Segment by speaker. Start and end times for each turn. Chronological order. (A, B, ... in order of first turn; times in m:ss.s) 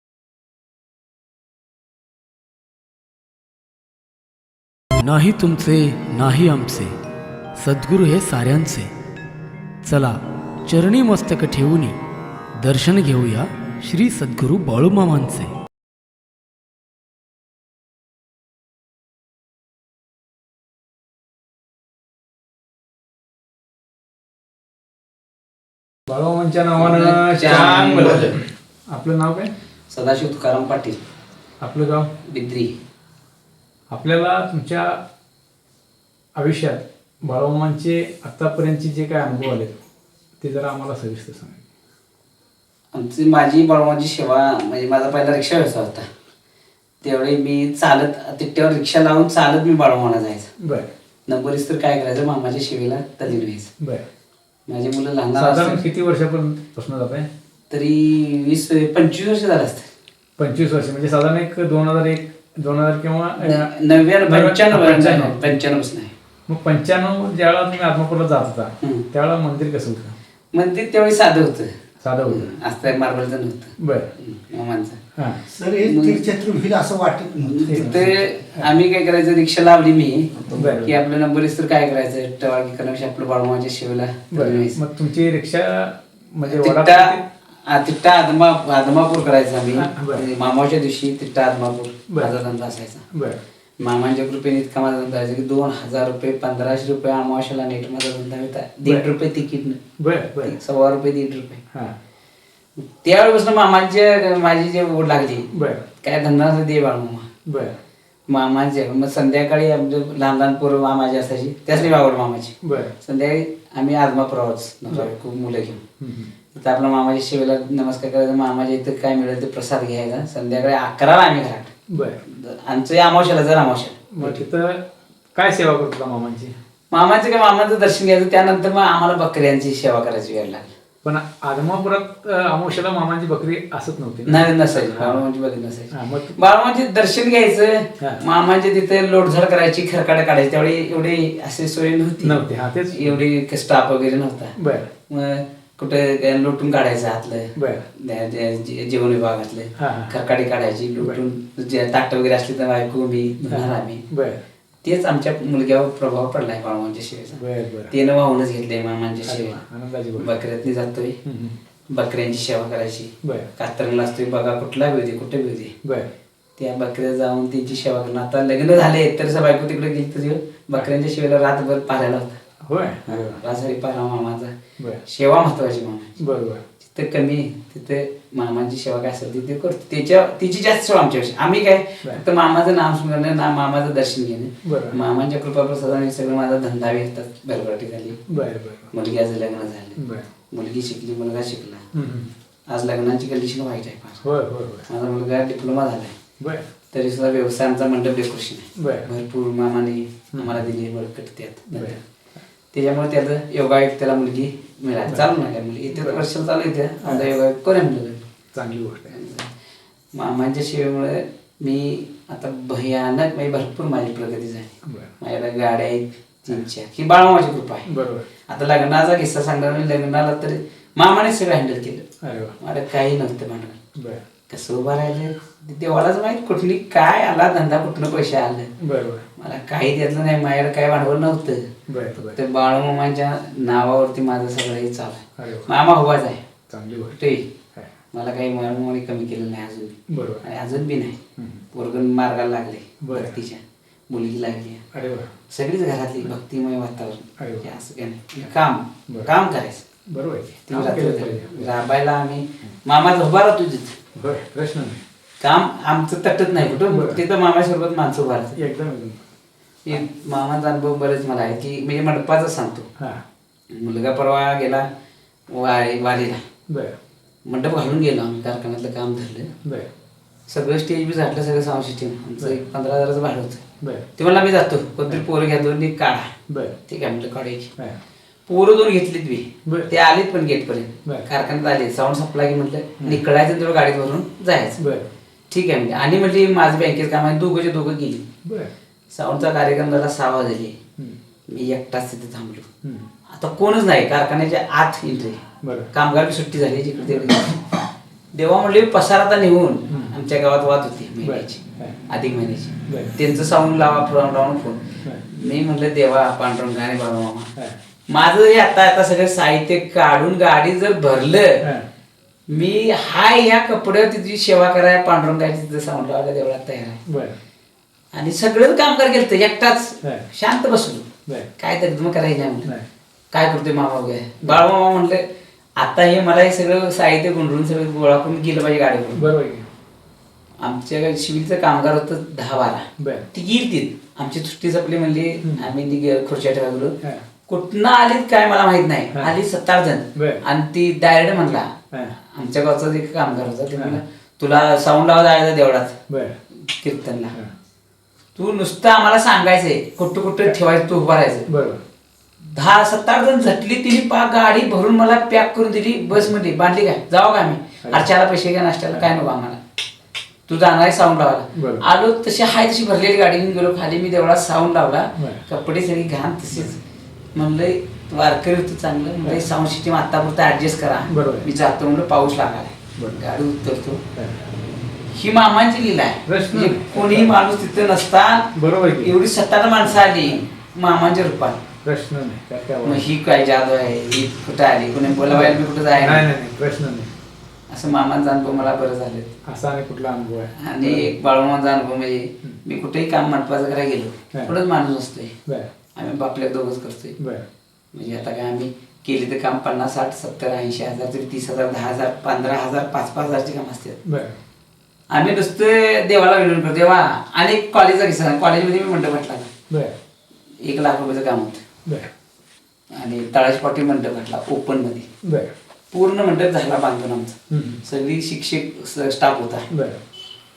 0:05.0-0:07.0 A
0:07.6-0:08.9 A
0:09.8-0:12.0 A
0:12.6-0:15.6 A
0:26.1-0:29.5 B
0:26.8-0:28.4 C
0:29.9-0:31.0 C
0:31.6-0:32.1 B
0:32.2-0:32.8 C
0:33.9-0:35.0 B
0:36.4-0:39.8 B
0:40.4-0:41.6 B
0:42.9-0:46.1 C
0:47.0-0:50.5 C
0:50.6-0:50.9 B
0:51.3-0:53.7 C
0:54.7-0:55.8 C
0:55.3-0:57.3 B
0:57.7-0:59.9 C
1:00.4-1:03.7 B
1:03.4-1:06.1 C
1:04.2-1:05.4 B
1:06.5-1:10.2 B
1:10.5-1:11.7 C
1:12.0-1:12.5 B
1:12.3-1:15.0 C
1:13.8-1:14.1 B
1:15.2-1:15.4 B
1:15.5-1:18.1 D
1:15.8-1:16.3 C
1:17.4-1:24.8 C
1:17.6-1:18.7 B
1:20.5-1:21.0 B
1:24.3-1:27.2 B
1:26.4-1:33.0 C
1:29.7-1:30.2 B
1:32.1-1:32.4 B
1:33.1-1:33.4 B
1:33.8-1:39.8 C
1:40.0-1:40.6 B
1:40.4-1:41.6 C
1:42.9-1:45.5 C
1:45.5-1:45.8 B
1:46.0-1:47.3 C
1:47.4-1:47.8 B
1:48.3-1:55.8 C
1:52.6-1:52.9 B
1:56.0-1:56.3 B
1:56.5-2:01.7 C
2:01.9-2:02.2 B
2:02.2-2:04.4 C
2:04.2-2:04.8 B
2:05.3-2:06.5 B
2:06.9-2:10.7 C
2:11.0-2:15.2 B
2:14.2-2:22.4 C
2:15.9-2:16.4 B
2:22.2-2:23.2 B
2:22.9-2:24.5 C
2:24.6-2:24.9 B
2:25.1-2:34.0 C
2:27.6-2:27.8 B
2:29.8-2:30.1 B
2:31.0-2:31.2 B
2:33.5-2:34.4 B
2:34.8-2:39.6 C
2:37.3-2:37.9 B
2:39.2-2:40.4 B
2:40.2-2:41.2 C
2:41.2-2:41.6 B
2:41.9-2:45.7 C
2:43.2-2:43.5 B
2:45.8-2:46.1 B
2:46.6-2:52.4 C
2:52.6-2:53.4 B
2:53.0-2:54.5 C
2:54.8-2:55.0 B
2:55.0-2:56.1 C
2:56.2-2:56.6 B
2:56.8-3:08.2 C
3:04.6-3:05.0 B
3:08.3-3:08.9 B
3:08.9-3:10.0 C
3:10.0-3:10.3 B
3:10.5-3:11.8 C
3:11.9-3:12.3 B
3:12.7-3:14.2 C
3:14.2-3:14.9 B
3:14.9-3:16.1 C
3:16.4-3:16.7 B
3:16.9-3:22.0 C
3:18.8-3:19.1 B
3:20.3-3:20.6 B
3:21.7-3:22.0 B
3:22.7-3:28.2 C
3:25.9-3:26.2 B
3:27.0-3:27.3 B
3:28.5-3:29.1 B
3:29.1-3:29.5 C
3:30.2-3:37.9 C
3:34.8-3:35.1 B
3:37.8-3:38.2 B
3:38.5-3:42.0 C
3:42.2-3:42.6 B
3:42.6-3:43.8 C
3:44.5-3:48.7 C
3:48.8-3:49.2 B
3:49.4-3:51.6 C
3:51.9-3:52.4 B
3:52.3-3:56.4 C
3:55.4-3:55.7 B
3:56.7-3:57.2 B
3:57.1-3:57.5 C
3:58.1-4:01.2 C
4:00.1-4:00.4 B
4:01.4-4:01.6 B
4:01.7-4:04.8 C
4:03.0-4:03.4 B
4:04.9-4:05.3 B
4:05.5-4:09.8 C
4:07.4-4:07.7 B
4:10.1-4:11.8 B
4:10.7-4:13.9 C
4:14.2-4:15.0 B
4:15.4-4:18.6 C
4:16.6-4:17.2 B
4:18.5-4:19.2 B
4:19.8-4:22.9 C
4:23.7-4:24.8 C
4:25.5-4:26.4 C
4:26.7-4:26.9 B
4:27.4-4:29.5 C
4:29.6-4:29.9 B
4:30.5-4:33.6 C
4:33.8-4:34.1 B
4:34.2-4:36.3 C
4:36.5-4:36.8 B
4:36.9-4:37.7 C
4:38.5-4:44.8 C
4:39.6-4:39.9 B
4:44.8-4:45.1 B
4:45.5-4:48.2 C
4:48.4-4:48.7 B
4:49.1-4:50.8 C
4:51.5-4:52.7 C
4:52.8-4:53.1 B
4:53.3-4:57.6 C
4:55.6-4:55.9 B
4:57.0-4:57.4 B
4:58.3-5:07.5 C
4:59.9-5:00.1 B
5:01.2-5:02.0 B
5:02.9-5:03.2 B
5:08.1-5:11.6 C
5:11.6-5:11.9 B
5:12.5-5:17.0 C
5:17.1-5:17.4 B
5:18.1-5:22.7 C
5:20.0-5:20.3 B
5:23.3-5:25.2 C
5:25.8-5:29.2 C
5:29.1-5:29.7 B
5:30.6-5:37.0 C
5:33.0-5:33.3 B
5:35.4-5:35.7 B
5:37.5-5:41.7 C
5:40.1-5:40.4 B
5:42.3-5:46.0 C
5:43.7-5:44.0 B
5:46.1-5:46.4 B
5:46.7-5:47.3 C
5:48.4-5:51.5 C
5:51.5-5:51.8 B
5:52.5-5:59.6 C
5:57.8-5:58.1 B
6:00.5-6:06.8 C
6:01.5-6:01.8 B
6:05.2-6:05.4 B
6:07.3-6:14.0 C
6:11.1-6:11.5 B
6:13.0-6:13.2 B
6:14.1-6:14.4 B
6:15.1-6:18.5 C
6:16.2-6:17.4 B
6:18.5-6:19.2 B
6:19.0-6:21.6 C
6:19.8-6:20.4 B
6:21.8-6:23.1 B
6:22.8-6:26.3 C
6:25.3-6:27.1 B
6:27.7-6:29.3 C
6:29.4-6:31.1 B
6:30.6-6:35.3 C
6:36.0-6:37.2 C
6:37.2-6:37.5 B
6:37.9-6:44.0 C
6:44.0-6:44.4 B
6:45.1-6:49.5 C
6:49.7-6:49.9 B
6:50.6-6:51.6 C
6:53.0-6:55.1 C
6:55.2-6:55.5 B
6:55.9-6:59.6 C
6:57.5-6:57.8 B
6:59.7-7:00.0 B